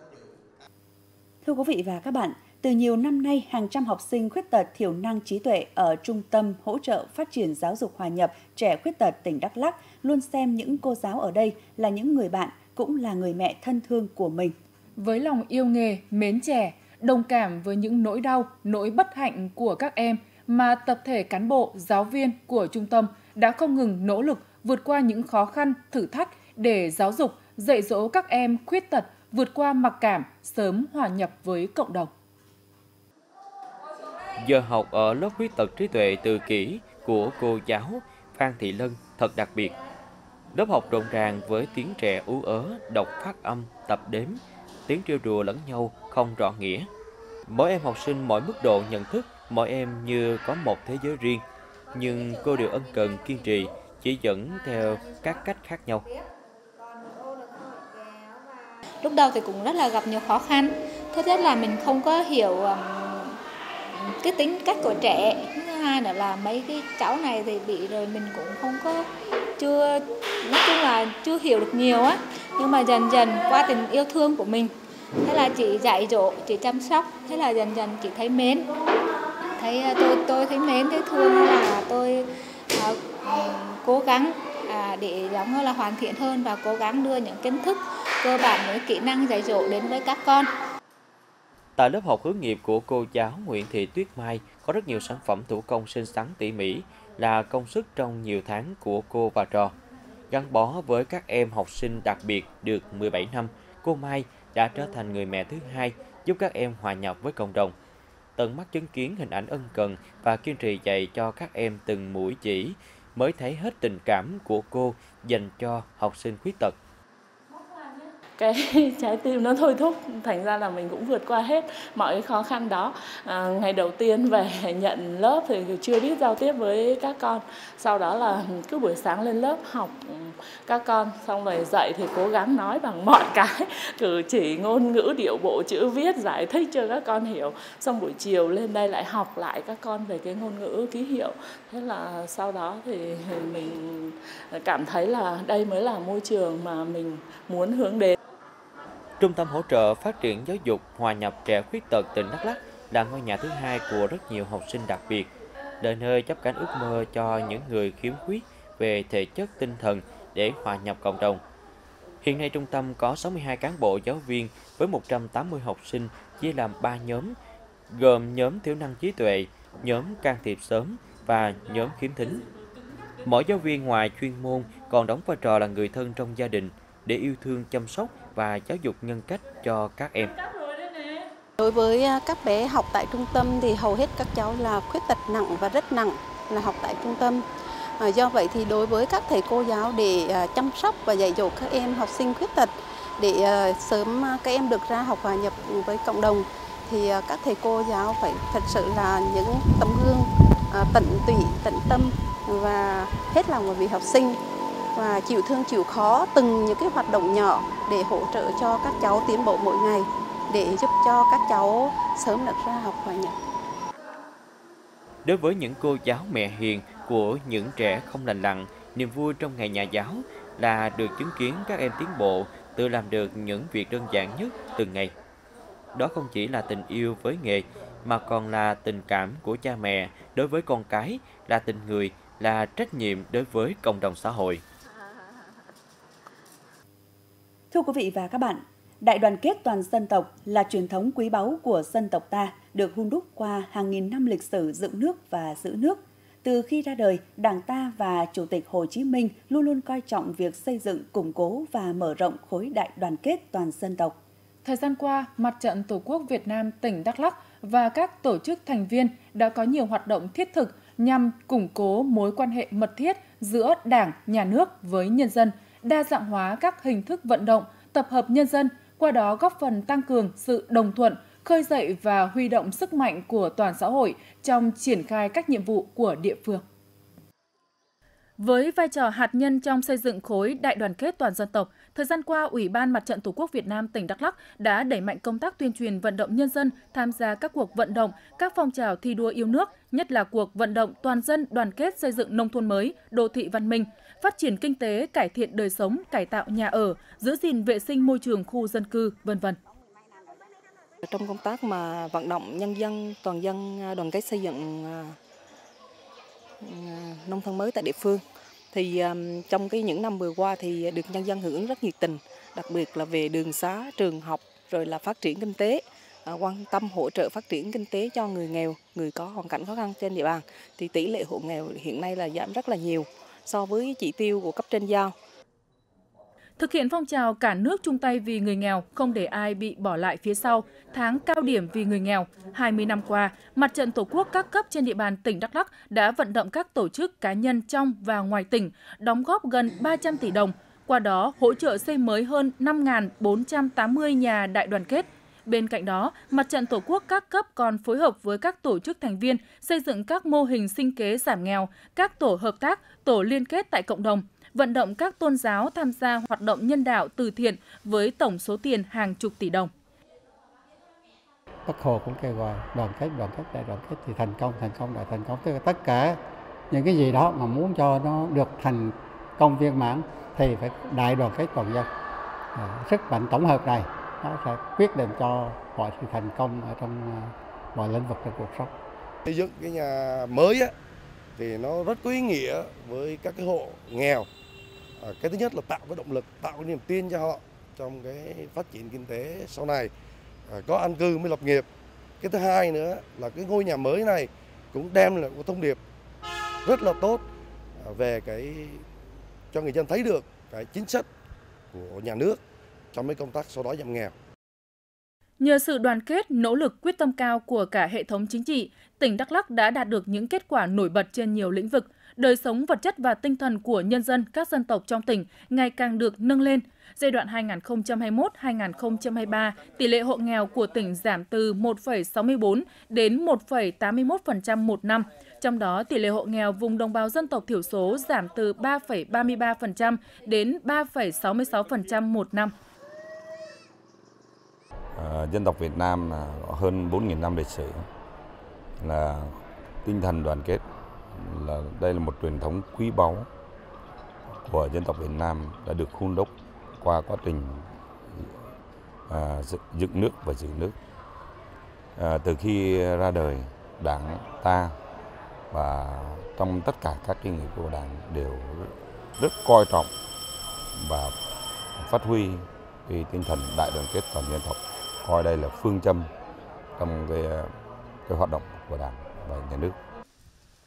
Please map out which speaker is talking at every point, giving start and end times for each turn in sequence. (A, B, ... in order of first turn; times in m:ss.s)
0:01.4-0:14.5 A
0:15.0-0:32.1 B
0:34.4-0:39.8 C
0:40.5-0:46.9 C
0:47.5-0:56.0 C
0:59.0-1:03.4 D
1:03.9-1:09.1 D
1:09.6-1:18.7 D
1:19.6-1:30.5 D
1:31.8-1:39.8 C
1:40.3-1:47.8 C
1:48.4-1:56.8 C
1:57.6-2:28.2 E
2:29.2-2:35.3 C
2:35.8-2:41.4 C
2:42.2-2:47.3 C
2:47.9-2:52.4 C
2:53.2-3:00.4 C
3:01.6-3:07.4 F
3:08.0-3:24.4 F
3:25.0-3:33.4 F
3:35.2-3:45.1 C
3:46.0-3:54.6 C
3:57.7-4:14.2 A
4:14.6-4:36.6 B
4:38.4-4:59.6 B
5:01.0-5:05.2 G
5:06.6-5:25.1 G
5:26.6-5:59.7 B
6:01.7-6:11.9 H
6:12.6-6:18.7 H
6:19.3-6:20.7 I
6:21.4-6:24.3 I
6:25.0-6:29.9 I
6:30.5-6:31.7 I
6:32.2-6:35.8 I
6:36.6-6:37.2 I
6:37.8-6:38.8 I
6:39.5-6:41.1 I
6:41.7-6:42.4 I
6:42.9-6:44.1 I
6:45.4-7:12.5 B
7:15.0-7:17.9 J
7:18.8-7:23.3 J
7:24.4-7:28.3 J
7:29.1-7:30.8 J
7:32.0-7:34.7 J
7:35.5-7:39.9 J
7:40.8-7:41.1 J
7:41.8-7:46.1 J
7:46.8-7:47.5 J
7:48.1-7:49.8 J